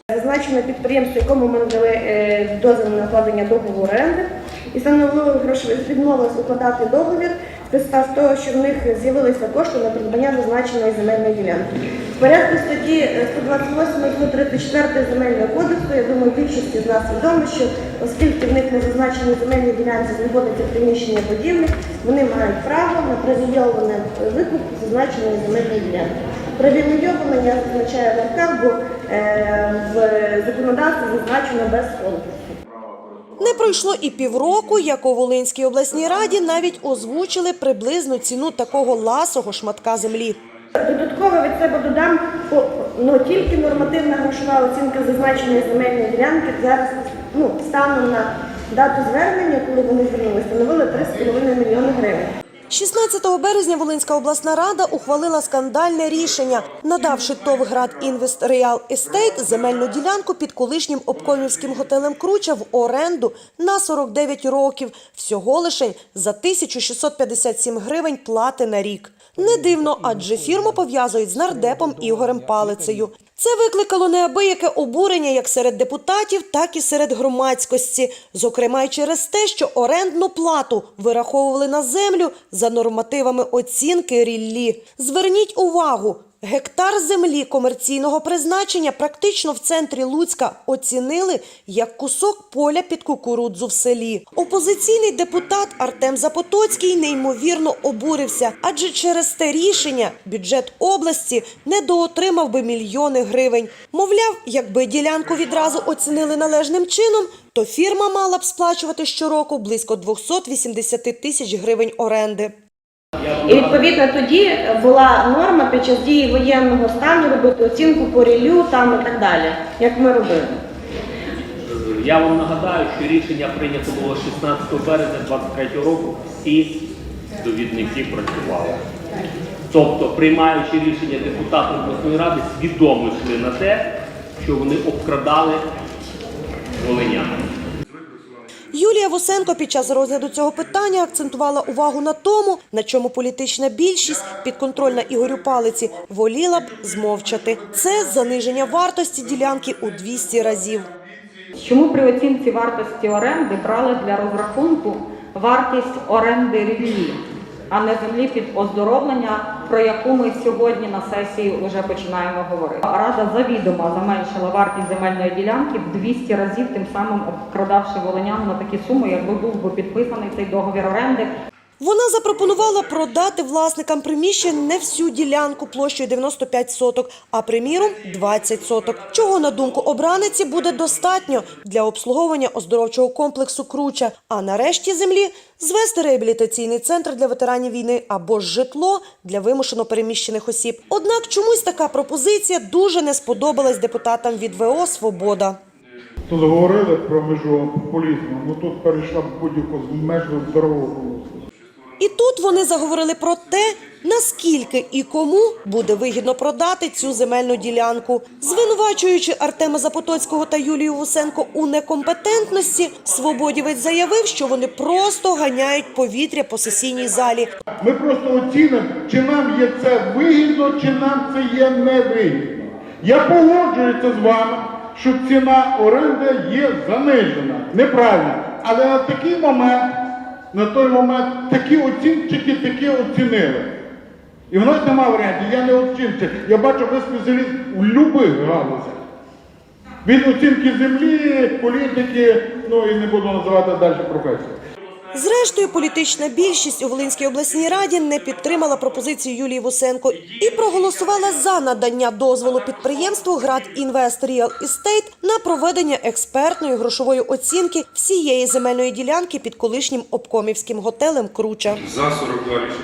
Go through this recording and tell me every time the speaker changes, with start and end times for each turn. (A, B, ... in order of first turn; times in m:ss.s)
0:00.1-0:32.5 A
0:33.4-0:40.4 B
0:40.8-0:52.3 A
0:52.7-1:52.6 B
1:53.2-1:53.9 C
1:53.4-2:00.6 A
2:01.6-2:06.8 C
2:07.4-2:08.8 C
2:09.7-2:13.9 C
2:14.4-2:15.6 C
2:16.8-2:17.4 C
2:18.7-2:30.9 B
2:31.6-2:51.3 D
2:51.8-3:15.6 B
3:16.3-3:21.4 E
3:22.0-3:37.5 B
3:37.8-3:49.9 E
3:50.5-3:53.7 E
3:54.5-3:59.0 E
4:00.0-4:04.6 E
4:05.1-4:21.8 B